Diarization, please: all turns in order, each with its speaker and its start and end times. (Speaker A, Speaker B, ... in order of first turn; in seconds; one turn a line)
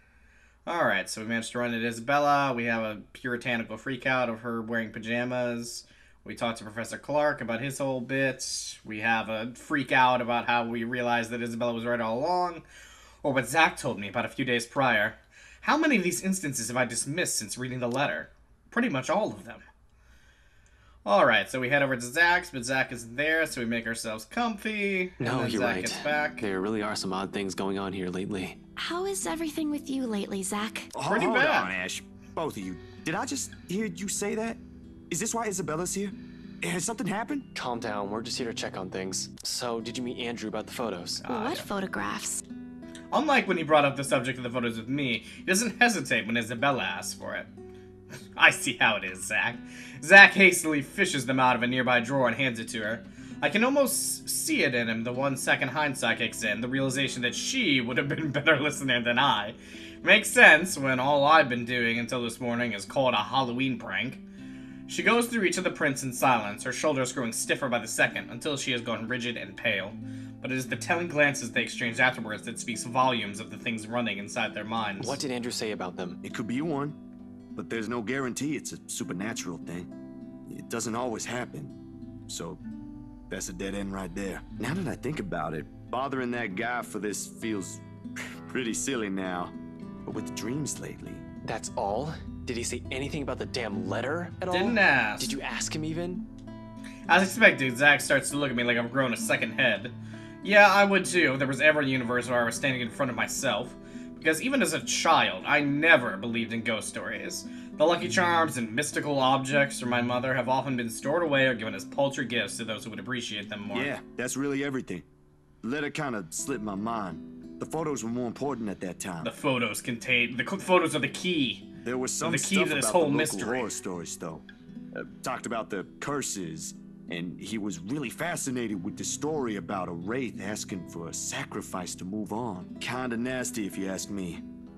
Speaker A: 0.7-12.6
Speaker A: 13.2-19.6
Speaker A: 21.0-26.4
Speaker B: 25.2-28.6
Speaker C: 28.8-30.9
Speaker D: 30.9-37.5
Speaker A: 31.1-31.7
Speaker B: 37.5-41.2
Speaker A: 41.2-41.7
Speaker C: 41.2-42.4
Speaker A: 43.1-47.5
Speaker A: 48.4-64.2
Speaker A: 64.9-75.2
Speaker B: 75.0-76.2
Speaker D: 76.2-77.0
Speaker D: 77.5-79.9
Speaker D: 80.5-81.8
Speaker D: 82.3-82.6
Speaker D: 83.3-91.2
Speaker B: 91.4-96.2
Speaker A: 94.5-95.3
Speaker A: 97.1-113.9
Speaker D: 113.7-115.0
Speaker D: 115.6-119.3
Speaker A: 119.2-121.7
Speaker D: 121.8-134.4
Speaker A: 122.2-123.7